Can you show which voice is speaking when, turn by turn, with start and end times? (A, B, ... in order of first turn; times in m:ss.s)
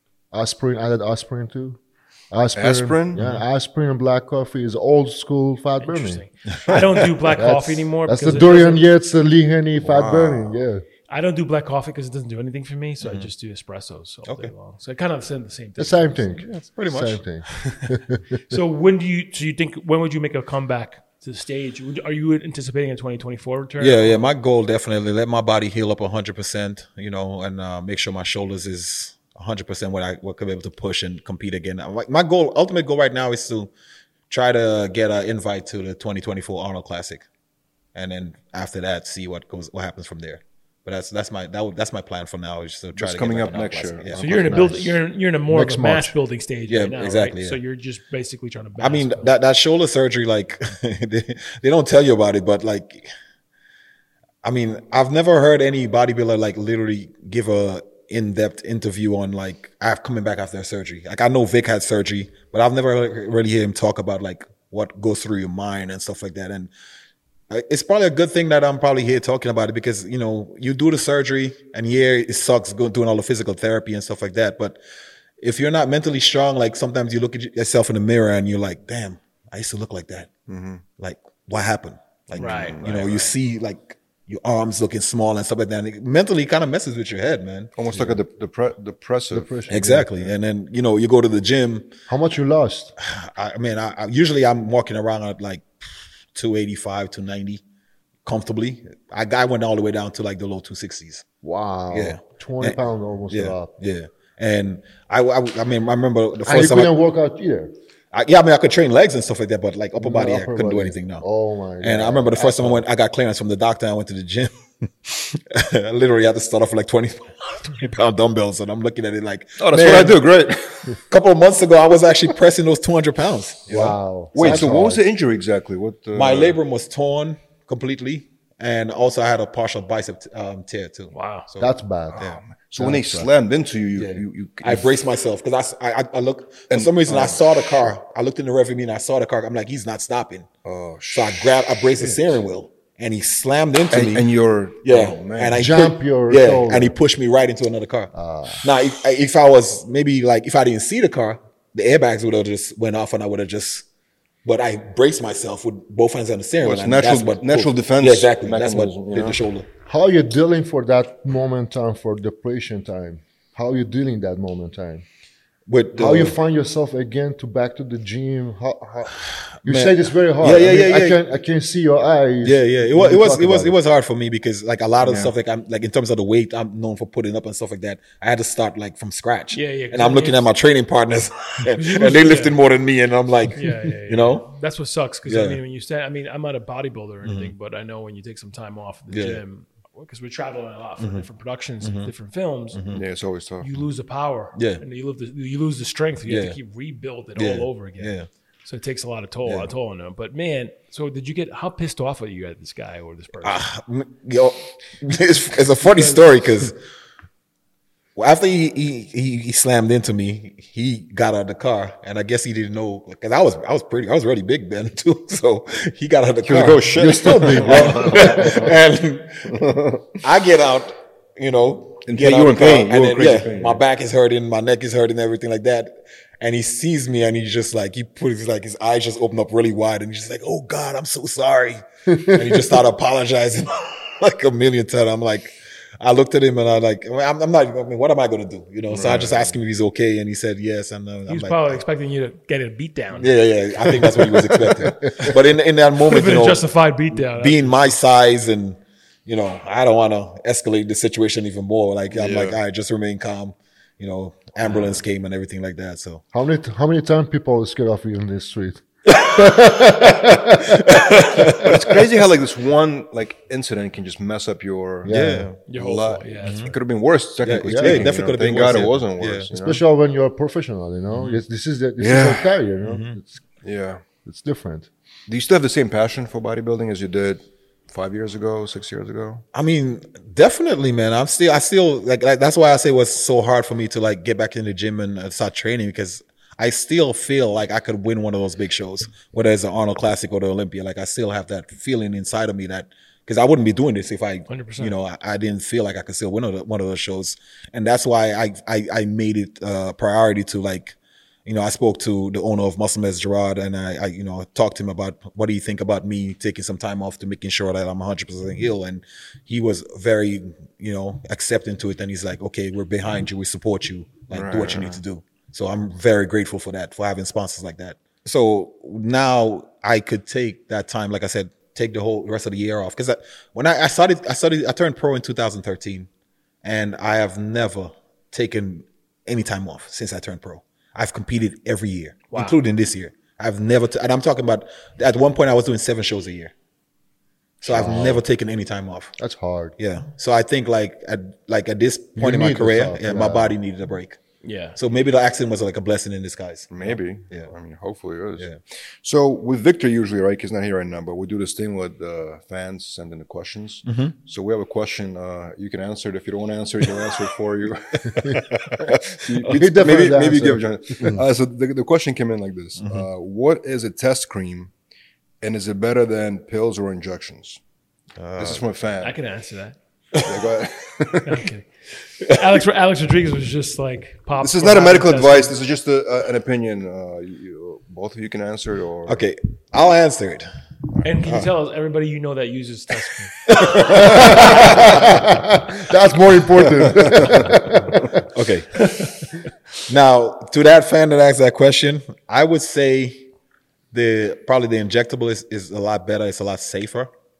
0:00.3-0:01.8 A
0:02.3-0:06.2 A
0:02.5-0:03.3 B
0:05.8-0:08.9 C
0:07.2-0:10.8 A
0:09.8-0:10.6 B
0:11.1-0:16.3 C
0:13.0-0:13.3 D
0:14.2-0:14.5 D
0:15.8-0:18.2 A
0:16.4-0:17.9 D
0:18.5-0:24.2 C
0:23.8-0:33.7 D
0:34.3-0:37.2 D
0:37.9-0:44.3 D
0:42.9-0:44.9 B
0:44.2-0:49.3 C
0:44.4-0:46.1 A
0:46.7-0:47.6 D
0:48.8-0:53.1 D
0:54.4-1:06.7 D
1:07.5-1:14.8 D
1:15.4-1:20.3 D
1:20.5-1:20.8 B
1:21.0-1:28.1 D
1:22.3-1:23.3 B
1:22.4-1:22.8 C
1:27.8-1:29.5 B
1:29.3-1:30.3 A
1:29.7-1:32.0 D
1:32.1-1:32.9 A
1:33.0-1:35.7 D
1:36.3-1:37.6 D
1:38.2-1:41.2 D
1:41.4-1:43.7 A
1:41.9-1:42.8 D
1:43.3-1:46.9 D
1:46.4-1:47.7 A
1:48.1-1:51.2 D
1:50.0-1:52.8 A
1:51.8-2:00.2 D
1:59.6-2:01.0 B
2:01.1-2:04.6 D
2:03.7-2:05.0 A
2:04.4-2:06.6 B
2:06.1-2:12.4 D
2:11.1-2:11.5 C
2:11.6-2:12.2 A
2:12.2-2:14.9 B
2:12.8-2:13.3 A
2:14.0-2:20.5 D
2:16.7-2:17.4 B
2:20.6-2:22.4 B
2:21.1-2:24.3 D
2:23.9-2:25.7 B
2:24.8-2:28.1 D
2:25.5-2:27.0 A
2:28.1-2:28.8 A
2:28.6-2:33.9 D
2:34.4-2:39.7 D
2:36.6-2:39.4 B
2:39.9-2:45.0 A
2:45.7-2:46.4 D
2:45.9-2:53.8 A
2:49.6-2:51.2 D
2:52.4-3:04.5 D
2:55.0-2:55.3 B
2:59.5-3:00.5 C
3:01.7-3:02.6 C
3:03.5-3:12.8 C
3:05.2-3:05.6 D
3:07.2-3:07.5 D
3:09.1-3:09.4 D
3:11.0-3:11.2 D
3:11.8-3:12.1 D
3:12.7-3:13.0 D
3:12.9-3:13.7 B
3:13.6-3:18.1 C
3:14.5-3:14.8 D
3:16.3-3:16.6 D
3:17.4-3:18.3 D
3:18.6-3:23.6 C
3:19.4-3:19.7 D
3:23.4-3:26.8 D
3:28.2-3:39.6 D
3:36.4-3:38.8 B
3:36.9-3:38.7 A
3:39.5-3:40.0 B
3:40.2-4:01.8 D
3:42.0-3:43.8 B
3:52.1-3:52.8 A
3:58.9-3:59.6 B
4:01.3-4:04.1 C
4:03.2-4:16.2 D
4:06.1-4:08.0 C
4:12.1-4:12.6 B
4:16.3-4:21.6 A
4:19.1-4:21.8 D
4:21.4-4:29.8 B
4:25.0-4:25.5 A
4:25.1-4:25.6 D
4:25.7-4:26.7 C
4:26.4-4:26.7 D
4:27.4-4:29.5 D
4:27.6-4:28.1 A
4:29.5-4:33.4 A
4:32.0-4:32.5 B
4:32.8-4:33.2 D
4:33.6-4:34.0 B
4:34.2-4:34.9 A
4:35.3-4:39.4 B
4:39.5-5:26.1 D
4:54.5-4:54.9 C
5:14.3-5:15.0 B
5:26.6-5:36.5 D
5:32.3-5:32.6 C
5:37.6-5:39.1 D
5:37.6-5:38.2 A
5:39.2-5:39.7 A
5:39.8-5:44.2 D
5:42.2-5:43.6 A
5:44.4-5:44.8 C
5:44.8-5:47.5 D
5:46.7-6:04.7 B
5:53.9-5:54.1 D
5:58.8-6:00.1 D
5:59.5-6:01.2 A
6:05.4-6:07.6 B
6:08.2-6:08.6 D
6:08.4-6:09.2 B
6:09.0-6:09.8 C
6:10.2-6:11.5 B
6:11.2-6:11.7 C
6:12.2-6:15.6 C
6:14.4-6:19.2 B
6:19.0-6:20.5 D
6:21.0-6:23.3 C
6:21.2-6:21.5 D
6:23.4-6:25.4 D
6:23.9-6:28.1 A
6:26.8-6:33.3 D
6:27.0-6:27.4 B
6:33.9-6:37.1 D